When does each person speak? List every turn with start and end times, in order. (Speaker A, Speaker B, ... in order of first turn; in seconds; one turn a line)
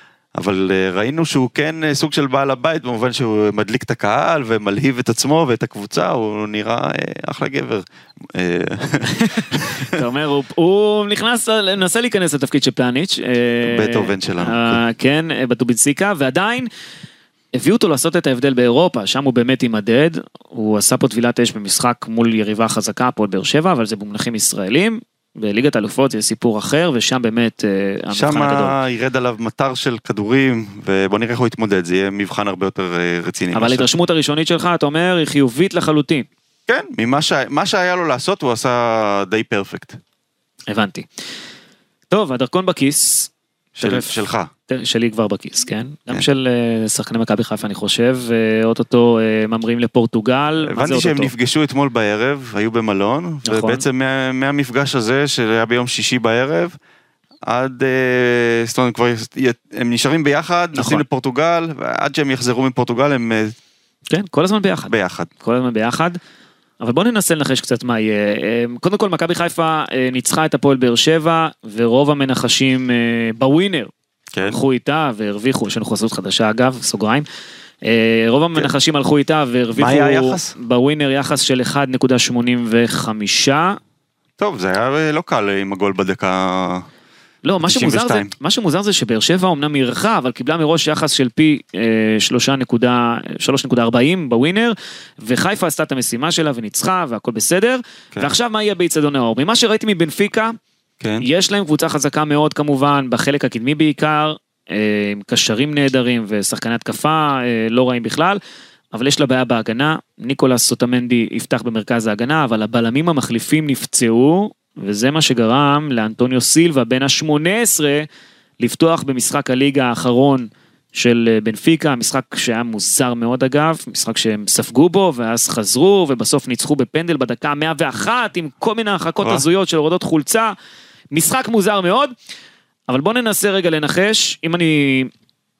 Speaker A: 0.3-10.0
Speaker B: 9.1-16.7
Speaker A: 13.6-14.8
Speaker B: 17.6-28.8
Speaker A: 28.1-33.9
Speaker B: 33.5-36.3
Speaker A: 36.7-40.0
Speaker B: 40.7-41.1
Speaker B: 42.1-51.3
Speaker A: 43.8-44.5
Speaker A: 50.6-56.8
Speaker B: 53.5-53.8
Speaker A: 57.5-63.6
Speaker B: 60.8-61.0
Speaker B: 64.1-66.2
Speaker A: 64.9-65.3
Speaker B: 66.8-73.9
Speaker A: 74.3-74.6
Speaker B: 74.4-77.2
Speaker B: 77.8-83.8
Speaker A: 79.8-80.5
Speaker A: 84.4-86.9
Speaker B: 87.4-100.5
Speaker A: 87.7-88.3
Speaker A: 101.0-101.3
Speaker B: 101.2-108.4
Speaker B: 108.9-118.1
Speaker B: 118.6-130.5
Speaker B: 131.1-132.1
Speaker B: 132.9-135.1